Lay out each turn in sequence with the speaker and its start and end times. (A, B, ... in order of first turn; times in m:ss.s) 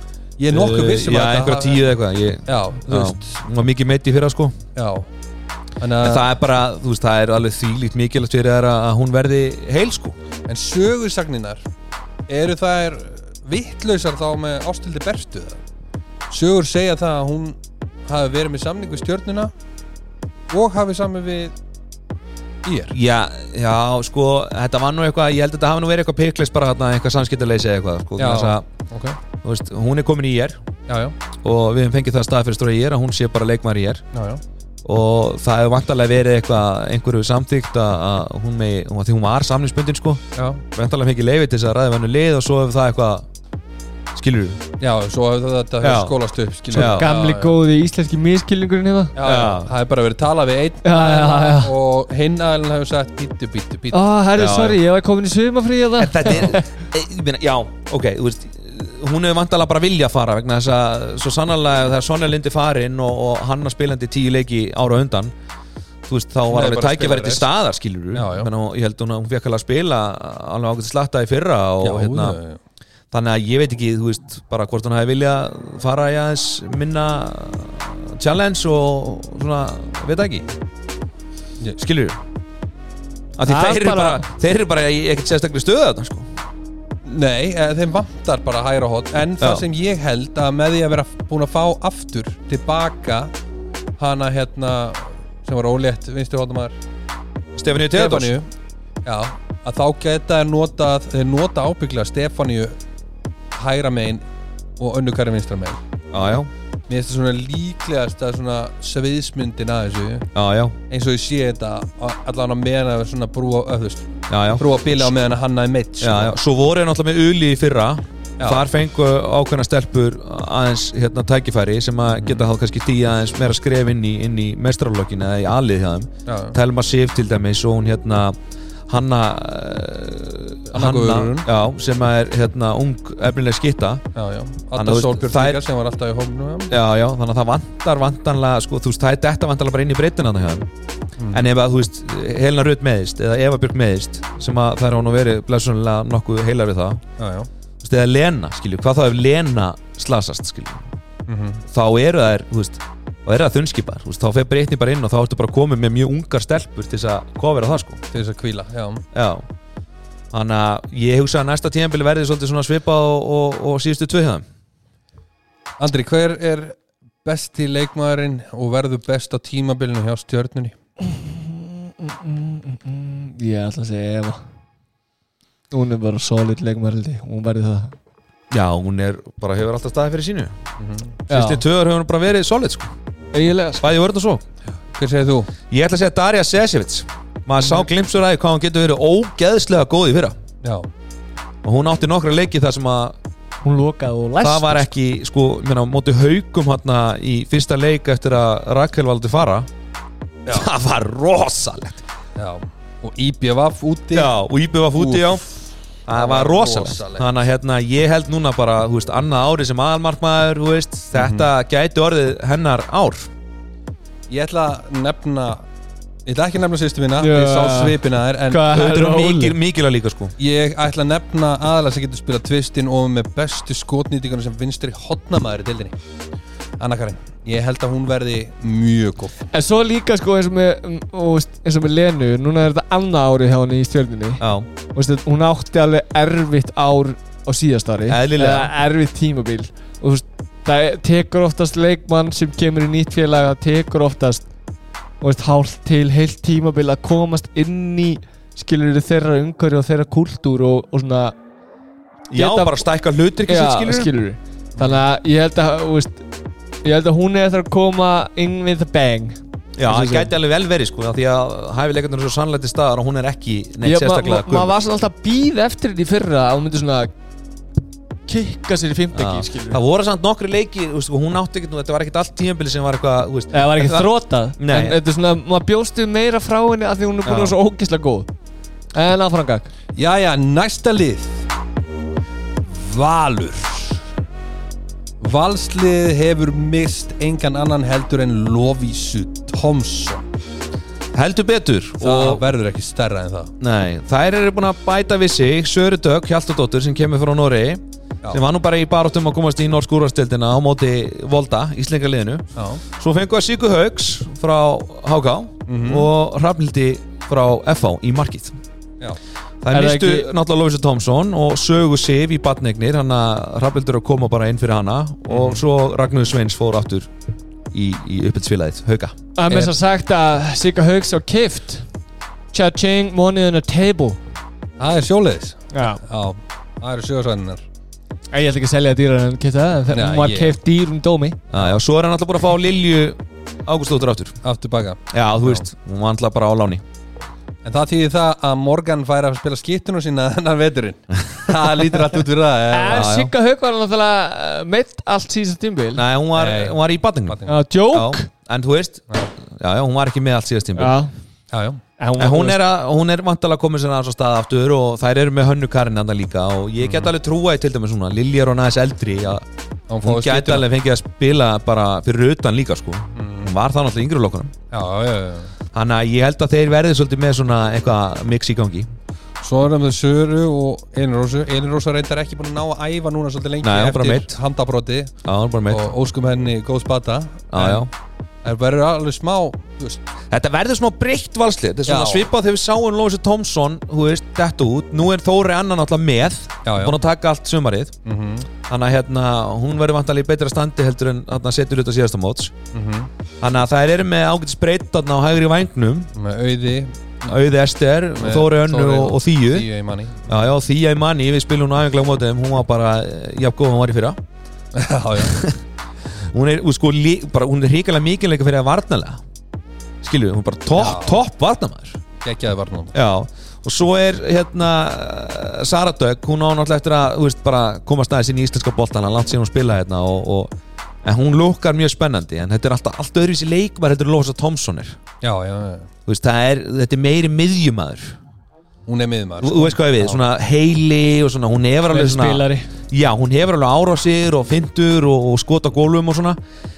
0:00.4-0:01.9 A
0:00.5-0:04.6 B
0:02.5-0:03.4 A
0:04.8-0:05.1 A
0:05.8-0:06.3 A
0:06.0-0:10.2 B
0:10.5-0:11.6 A
0:12.3-0:15.6 A
0:16.3-0:19.5 A
0:20.5-0:21.6 A
0:22.6-0:23.0 A
0:22.9-0:28.6 B
0:28.2-0:29.2 A
0:29.4-0:30.6 B
0:30.9-0:31.2 A
0:31.4-0:34.0 B
0:34.1-0:34.4 A
0:34.8-0:43.3 B
0:40.4-0:40.6 A
0:44.2-0:44.6 B
0:44.8-0:47.6 A
0:45.8-0:46.2 B
0:46.7-0:47.1 B
0:46.7-0:49.2 C
0:49.2-0:54.0 A
0:49.2-0:49.7 B
0:50.8-0:51.8 C
0:53.9-0:56.7 C
0:54.4-0:54.8 B
0:56.0-1:05.3 B
1:06.1-1:12.4 B
1:06.5-1:07.5 A
1:08.1-1:08.5 A
1:11.8-1:12.6 A
1:13.1-1:20.5 B
1:21.8-1:22.2 B
1:23.4-1:26.3 B
1:23.4-1:24.3 C
1:27.0-1:33.3 A
1:29.4-1:29.6 B
1:34.0-1:36.8 A
1:37.6-1:38.4 B
1:37.8-1:38.5 A
1:39.0-1:42.8 A
1:43.6-1:44.2 A
1:44.8-1:45.8 A
1:46.1-1:46.5 B
1:46.9-1:50.3 A
1:50.3-1:50.8 B
1:50.9-1:56.4 A
1:54.3-1:55.1 B
1:56.0-2:14.0 B
1:58.4-1:58.6 A
2:02.1-2:02.4 A
2:06.3-2:06.6 A
2:10.7-2:11.5 A
2:14.2-2:16.8 A
2:14.8-2:15.6 B
2:16.7-2:20.7 B
2:21.2-2:21.5 A
2:21.3-2:27.0 B
2:27.2-2:27.5 A
2:27.8-2:30.9 B
2:31.3-2:31.6 A
2:31.7-2:38.0 B
2:38.1-2:39.0 A
2:39.1-2:39.5 B
2:40.3-2:44.4 B
2:45.8-2:50.8 A
2:51.0-2:54.4 C
2:55.7-2:57.9 C
2:58.5-3:00.5 B
3:00.8-3:01.2 A
3:01.3-3:02.9 B
3:01.3-3:01.6 C
3:03.3-3:03.9 C
3:03.8-3:04.4 B
3:04.9-3:05.5 A
3:05.7-3:10.4 B
3:10.6-3:10.9 A
3:11.6-3:13.2 B
3:13.6-3:14.9 C
3:14.4-3:19.7 B
3:20.5-3:22.0 B
3:22.4-3:24.3 A
3:24.1-3:25.4 B
3:25.0-3:25.5 A
3:26.1-3:33.3 B
3:26.1-3:27.3 A
3:31.1-3:31.5 A
3:34.3-3:35.7 A
3:36.3-3:38.7 A
3:37.2-3:39.6 C
3:38.7-3:40.3 B
3:40.4-3:46.0 A
3:46.8-3:49.4 A
3:49.5-4:04.5 C
3:54.4-3:54.7 B
3:58.1-3:58.7 B
4:05.2-4:11.4 C
4:12.3-4:14.1 B
4:12.3-4:12.8 C
4:13.5-4:16.2 C
4:16.8-4:20.3 C
4:19.8-4:24.7 B
4:23.8-4:27.1 C
4:28.3-4:29.8 C
4:29.1-4:35.0 B
4:33.5-4:38.3 C
4:37.2-4:37.6 B
4:38.9-4:39.7 C
4:40.0-4:41.5 A
4:42.6-4:44.0 A
4:45.2-4:50.3 A
4:51.1-4:52.4 B
4:52.0-4:53.5 A
4:53.6-5:08.6 B
5:02.6-5:02.8 A
5:05.7-5:06.1 A
5:09.6-5:17.1 B
5:09.7-5:10.3 C
5:15.3-5:15.6 A
5:17.7-5:19.2 B
5:19.4-5:21.9 C
5:22.5-5:24.2 C
5:24.8-5:27.7 A
5:25.7-5:26.0 C
5:28.3-5:31.4 C
5:29.9-5:30.6 A
5:31.5-5:34.4 B
5:34.4-5:35.7 A
5:35.1-5:36.8 B
5:37.6-5:43.1 A
5:42.7-5:46.0 C
5:42.9-5:43.3 B
5:46.0-5:47.4 B
5:46.4-5:47.6 A
5:47.5-5:48.3 C
5:47.9-5:51.0 B
5:50.8-5:51.1 C
5:51.5-5:51.8 A
5:52.0-5:52.6 C
5:52.2-5:59.5 B
5:56.8-5:57.1 A
5:59.9-6:00.7 A
6:00.0-6:04.5 B
6:03.2-6:03.6 A
6:04.7-6:05.6 A
6:05.7-6:08.9 B
6:09.4-6:15.1 A
6:13.6-6:14.4 B
6:15.2-6:15.9 B
6:15.7-6:17.9 A
6:17.5-6:17.9 B
6:18.4-6:20.0 A
6:20.3-6:28.0 B
6:21.9-6:22.3 A
6:26.6-6:27.0 A
6:28.0-6:28.5 A
6:28.7-6:32.5 B
6:32.7-6:33.1 A
6:33.4-6:36.1 B
6:36.2-6:37.4 A
6:37.2-6:39.7 B
6:38.2-6:40.4 A
6:40.3-6:44.2 B
6:44.7-6:45.4 A
6:45.2-6:45.6 B
6:46.2-6:49.2 B
6:50.0-6:52.0 B
6:50.8-6:51.2 A
6:52.2-6:53.0 A
6:52.9-7:00.5 B
7:01.0-7:05.0 B
7:05.2-7:05.9 A
7:06.1-7:08.2 B
7:08.9-7:10.2 A
7:09.4-7:16.4 B
7:11.9-7:12.7 C